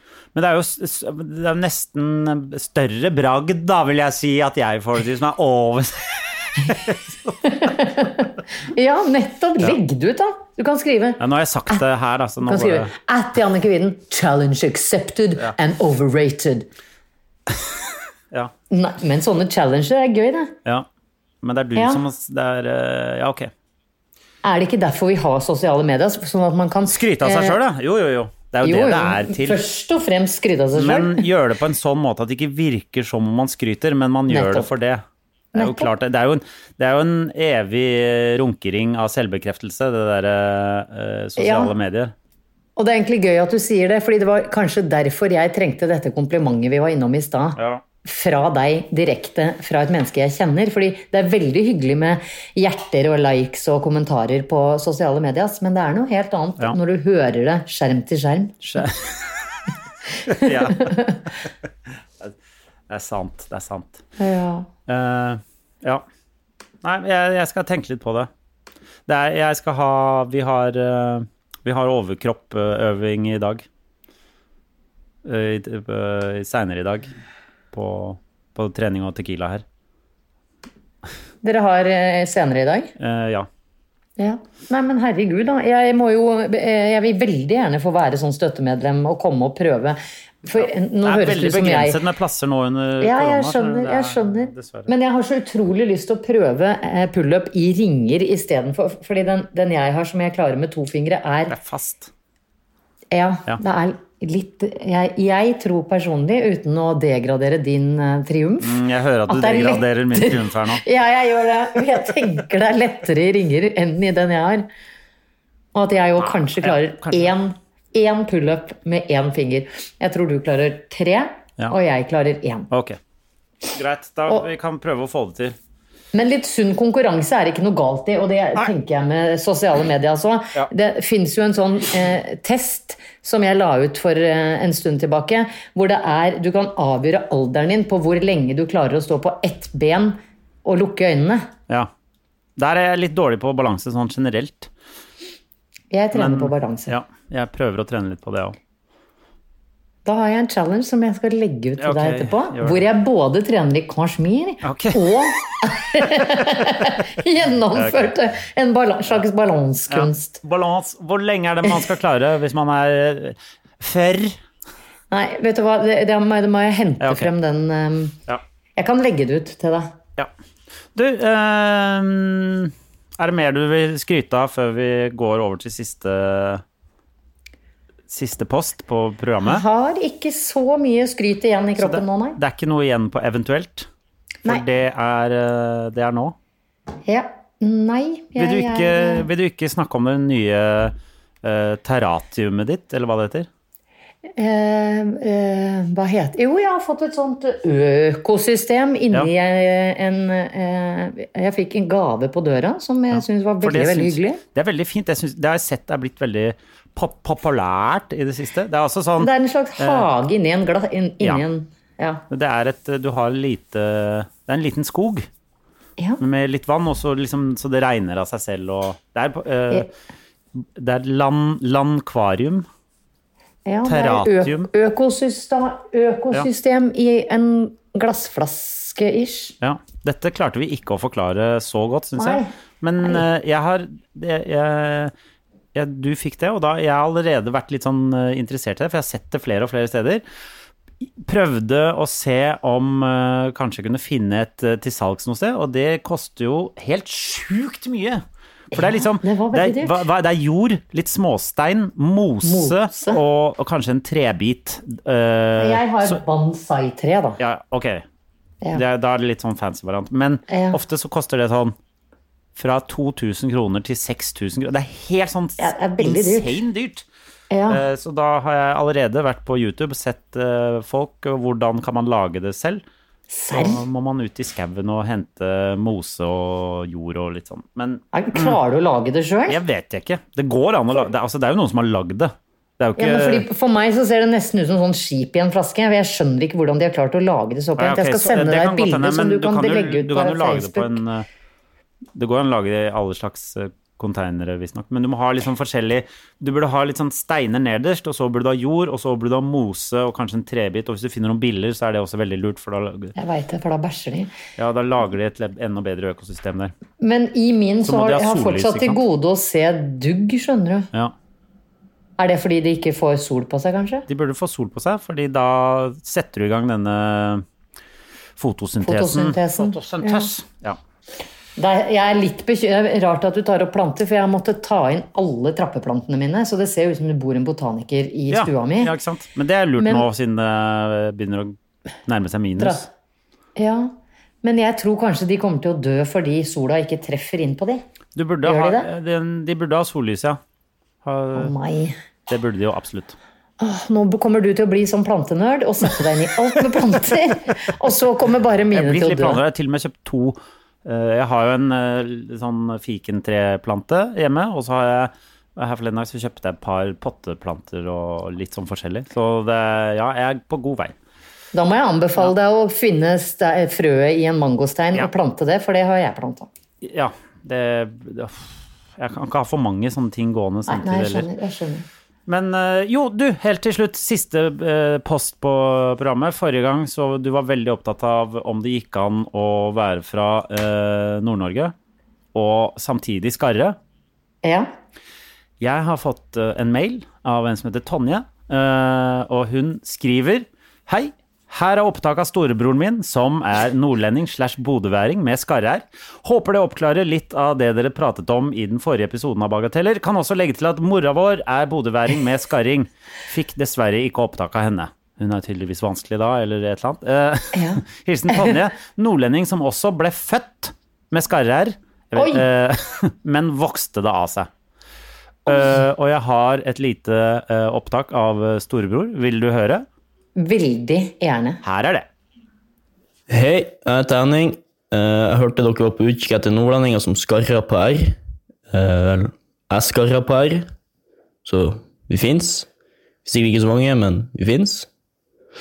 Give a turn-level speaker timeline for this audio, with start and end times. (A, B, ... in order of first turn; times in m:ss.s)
0:00.3-0:07.4 A
0:07.4-0:11.2 B
0:11.2-0:12.9 A
0:12.4-0:16.7 B
0:18.7-0:20.5 B
0:21.4-0:23.5 A
0:21.8-0:22.0 B
0:24.4-0:27.6 B
0:26.9-0:29.6 A
0:28.6-0:31.2 B
0:30.7-0:35.0 A
0:34.3-0:34.7 B
0:35.5-0:35.9 B
0:35.5-0:42.1 A
0:41.4-0:41.7 B
0:42.8-0:58.8 B
0:47.6-0:47.8 A
0:58.6-0:59.7 A
1:00.2-1:01.5 A
1:00.3-1:01.2 B
1:02.9-1:04.0 A
1:04.2-1:04.7 B
1:04.9-1:06.0 A
1:06.8-1:08.3 A
1:09.1-1:13.6 A
1:15.2-1:17.1 A
1:17.7-1:19.6 A
1:21.4-1:22.9 B
1:23.0-1:23.5 A
1:24.2-1:32.0 B
1:30.6-1:34.9 A
1:33.0-1:41.6 B
1:41.5-1:42.1 A
1:43.1-1:48.8 B
1:48.6-1:50.8 A
1:49.3-1:54.7 B
1:55.7-2:02.7 B
1:56.2-1:57.3 A
2:02.7-2:03.0 A
2:03.7-2:05.5 A
2:06.1-2:21.5 B
2:22.6-2:24.7 A
2:25.9-2:26.9 B
2:26.1-2:28.6 A
2:30.0-2:40.4 B
2:31.8-2:32.8 A
2:34.6-2:35.1 A
2:37.7-2:38.1 A
2:39.9-2:44.4 A
2:45.1-2:48.2 B
2:47.0-2:47.3 A
2:48.8-2:49.9 B
2:50.9-2:56.6 A
2:58.1-2:59.6 A
2:59.4-3:02.4 B
3:01.8-3:03.9 A
3:04.4-3:06.3 A
3:07.1-3:09.3 B
3:08.4-3:13.5 A
3:14.4-3:24.4 B
3:23.1-3:30.1 A
3:29.2-3:32.2 B
3:32.3-3:35.3 A
3:36.2-3:39.9 A
3:40.6-3:42.6 A
3:43.6-3:49.5 B
3:43.8-3:44.7 A
3:49.6-3:55.1 A
3:52.2-3:53.2 B
3:55.7-4:00.2 A
4:01.0-4:16.2 A
4:08.7-4:10.0 B
4:12.4-4:13.2 B
4:15.6-4:17.4 B
4:17.4-4:18.0 A
4:18.7-4:21.7 A
4:20.5-4:20.8 B
4:22.6-4:27.0 A
4:25.6-4:26.5 B
4:27.5-4:27.8 B
4:27.7-4:32.8 A
4:33.3-4:33.8 B
4:33.5-4:38.6 A
4:38.1-4:39.6 B
4:39.5-4:43.4 A
4:43.0-4:51.0 B
4:47.8-4:51.2 A
4:52.1-5:03.1 A
5:03.1-5:04.3 B
5:04.6-5:06.7 A
5:07.0-5:10.9 B
5:07.8-5:09.0 A
5:12.2-5:14.1 B
5:14.1-5:17.4 A
5:18.4-5:20.8 A
5:18.8-5:20.3 B
5:21.6-5:28.9 B
5:28.3-5:31.6 A
5:29.8-5:30.0 B
5:32.1-5:32.8 A
5:32.6-5:32.9 B
5:33.6-5:37.8 B
5:38.2-5:40.4 A
5:38.4-5:38.9 B
5:41.0-5:41.5 A
5:41.4-5:42.0 B
5:42.3-5:43.2 A
5:43.6-5:49.4 B
5:48.7-6:00.9 A
6:01.5-6:06.5 B
6:06.8-6:11.3 A
6:10.7-6:11.8 B
6:12.3-6:21.7 A
6:22.3-6:23.8 A
6:24.4-6:24.7 B
6:25.6-6:54.5 A
6:47.5-6:48.6 B
6:52.1-6:52.4 B
6:55.4-6:59.8 A
6:55.5-6:55.8 B
7:00.4-7:01.6 B
7:01.6-7:02.0 A
7:03.3-7:08.2 C
7:08.7-7:10.7 C
7:11.4-7:12.7 C
7:13.2-7:14.9 C